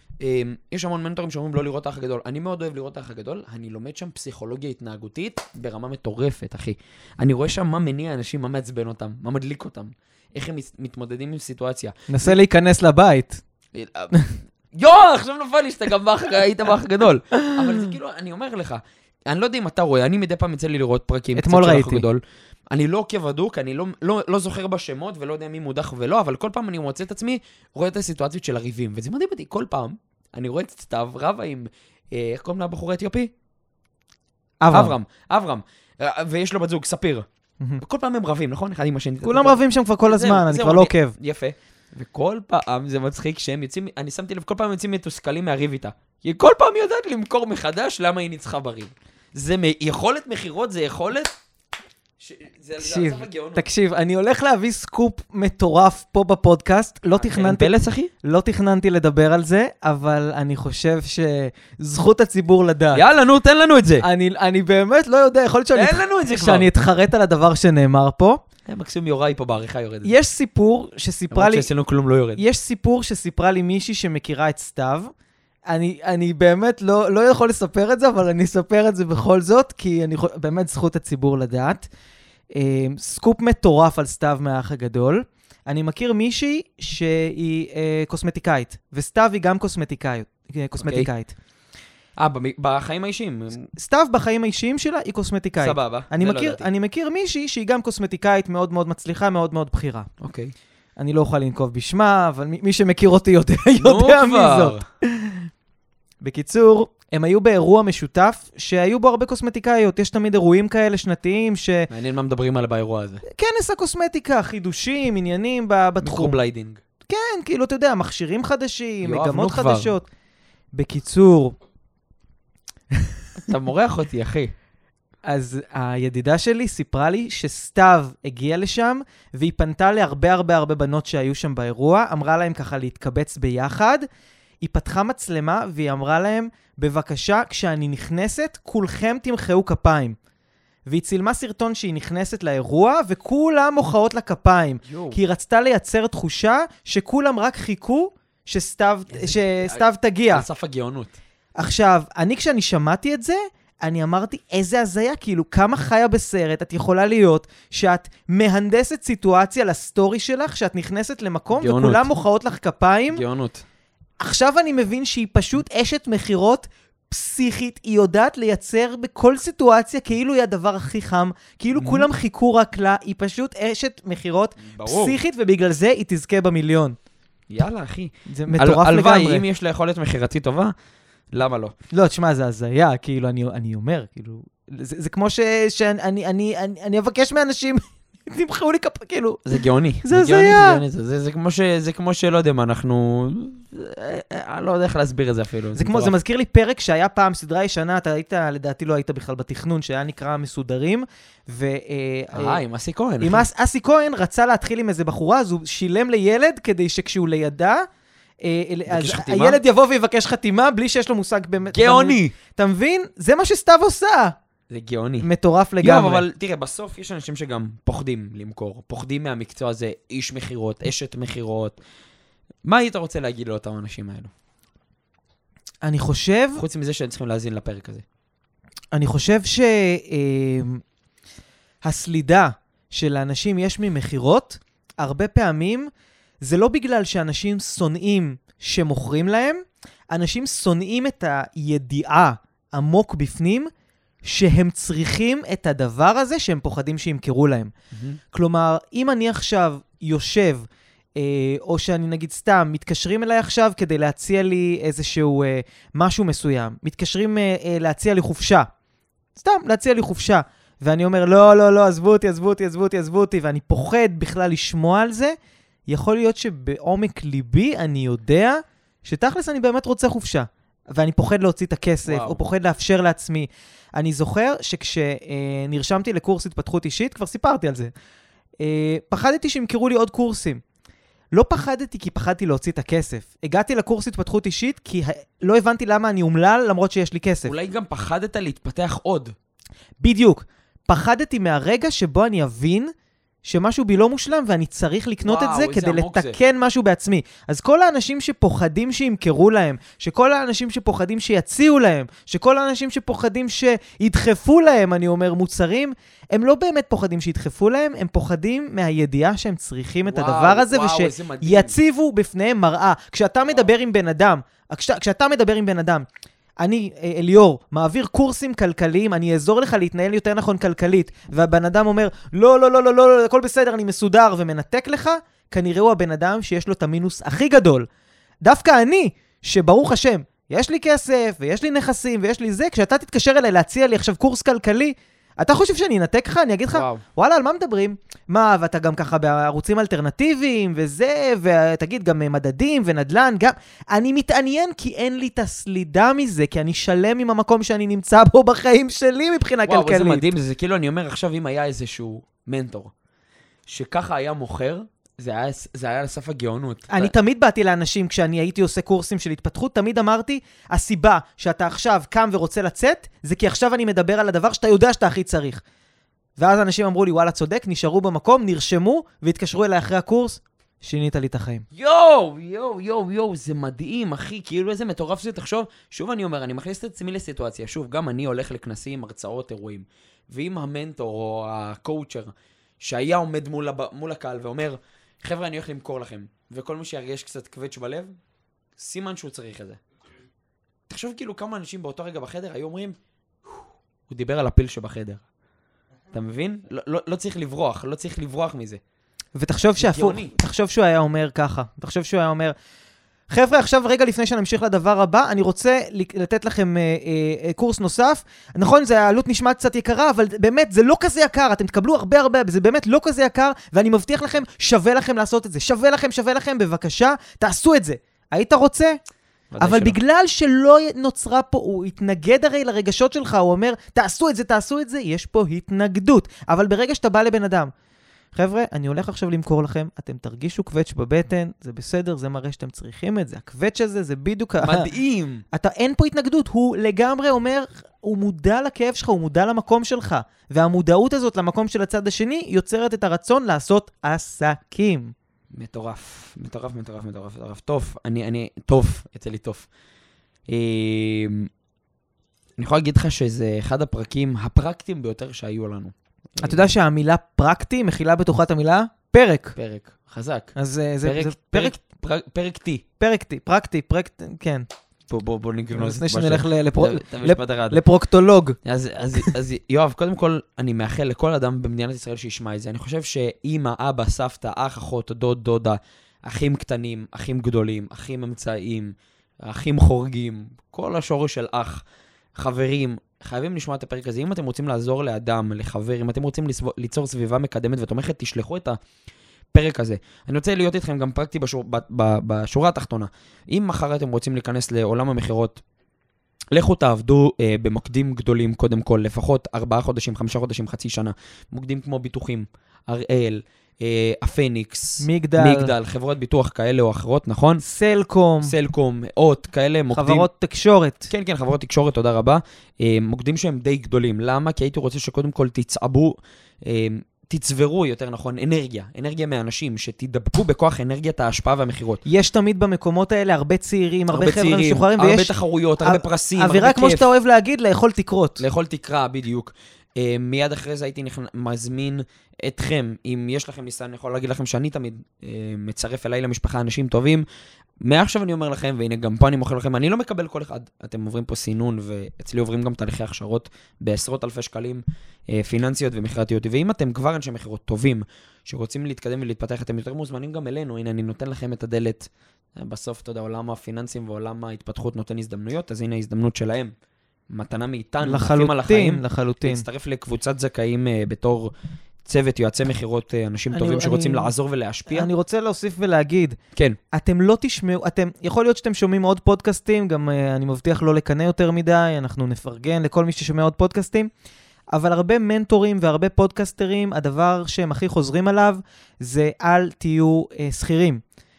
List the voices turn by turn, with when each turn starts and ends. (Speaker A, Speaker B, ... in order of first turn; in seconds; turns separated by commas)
Speaker A: 0.2-12.4, Speaker B: 12.1-13.4, Speaker A: 13.7-14.1, Speaker B: 14.1-14.4, Speaker A: 14.7-33.3, Speaker B: 17.3-17.9, Speaker B: 21.3-22.1, Speaker B: 34.6-35.0, Speaker A: 34.7-37.3, Speaker A: 37.8-51.3, Speaker B: 39.2-41.1, Speaker A: 52.2-53.6, Speaker B: 52.8-57.7, Speaker A: 57.1-58.1, Speaker B: 58.2-63.0, Speaker A: 62.9-64.0, Speaker B: 64.0-68.4, Speaker A: 65.8-66.7, Speaker A: 68.7-70.1, Speaker B: 70.0-71.7, Speaker A: 71.3-72.4, Speaker B: 72.4-75.1, Speaker B: 75.7-81.9, Speaker B: 82.5-91.3, Speaker A: 90.8-91.1, Speaker A: 92.2-93.6, Speaker B: 93.7-100.1, Speaker A: 95.6-96.7, Speaker A: 100.2-100.5, Speaker B: 101.0-105.5, Speaker A: 103.8-104.8, Speaker B: 106.2-111.9, Speaker A: 111.9-113.2, Speaker B: 113.2-116.4, Speaker A: 116.0-116.8, Speaker B: 117.1-120.1, Speaker A: 119.0-119.9, Speaker B: 120.7-121.6, Speaker A: 123.5-124.5, Speaker B: 125.3-134.1, Speaker B: 134.6-140.2, Speaker B: 140.9-150.5, Speaker A: 144.9-145.2, Speaker A: 149.1-149.8, Speaker A: 150.3-151.2, Speaker B: 151.6-163.2, Speaker A: 161.6-162.1, Speaker A: 163.1-163.6, Speaker B: 164.2-177.0, Speaker A: 171.8-172.1, Speaker A: 174.6-175.2, Speaker A: 177.5-180.7, Speaker B: 178.3-179.4, Speaker A: 181.3-181.8, Speaker B: 181.9-189.4, Speaker A: 189.5-196.1, Speaker B: 190.0-190.8, Speaker B: 195.8-202.6, Speaker A: 202.3-203.5, Speaker B: 203.2-207.8, Speaker B: 208.4-214.3, Speaker A: 208.9-209.6, Speaker A: 211.7-212.3, Speaker A: 214.7-215.3, Speaker B: 215.2-216.2, Speaker A: 215.8-221.8, Speaker A: 222.7-224.3, Speaker B: 225.8-226.6, Speaker A: 226.6-228.0, Speaker B: 228.9-230.8, Speaker B: 231.8-235.9, Speaker B: 236.4-243.7, Speaker B: 244.2-247.7, Speaker A: 247.9-248.2, Speaker B: 248.3-258.7, Speaker B: 259.4-265.4, Speaker B: 265.9-277.9, Speaker A: 272.1-272.4, Speaker B: 278.6-280.6, Speaker B: 281.3-287.5, Speaker A: 287.4-289.3, Speaker B: 290.0-292.9, Speaker B: 293.4-316.1, Speaker A: 295.2-296.4, Speaker A: 310.1-311.8, Speaker B: 316.6-327.9, Speaker B: 328.4-350.3, Speaker A: 336.7-337.0, Speaker A: 349.7-352.9, Speaker A: 353.7-357.1, Speaker B: 356.9-365.6, Speaker B: 366.4-371.7, Speaker A: 371.7-388.1, Speaker A: 388.8-389.8, Speaker A: 390.9-395.2, Speaker A: 396.1-398.8, Speaker B: 399.4-402.5, Speaker A: 399.8-400.3, Speaker B: 403.3-419.0, Speaker A: 419.5-420.0, Speaker B: 419.6-427.7, Speaker B: 428.3-434.9, Speaker A: 434.6-435.4, Speaker B: 435.5-445.1, Speaker A: 445.5-449.7, Speaker A: 450.5-451.5, Speaker A: 452.6-456.7, Speaker B: 456.4-459.6, Speaker A: 459.6-462.8, Speaker B: 460.6-461.8, Speaker B: 463.0-464.7, Speaker A: 465.1-467.8, Speaker B: 465.8-468.6, Speaker A: 468.6-481.8, Speaker A: 482.4-488.8, Speaker A: 489.5-495.6, Speaker A: 496.5-507.6, Speaker B: 505.0-505.7, Speaker B: 507.6-508.5, Speaker A: 508.4-510.3, Speaker B: 509.9-511.1, Speaker A: 511.1-522.0, Speaker B: 522.0-528.4, Speaker A: 524.1-527.0, Speaker A: 528.4-537.2, Speaker A: 537.8-556.7, Speaker A: 557.3-561.5, Speaker B: 558.0-559.6, Speaker A: 562.0-565.1, Speaker B: 563.5-564.3, Speaker B: 564.9-566.4, Speaker B: 566.9-574.1, Speaker B: 574.7-581.0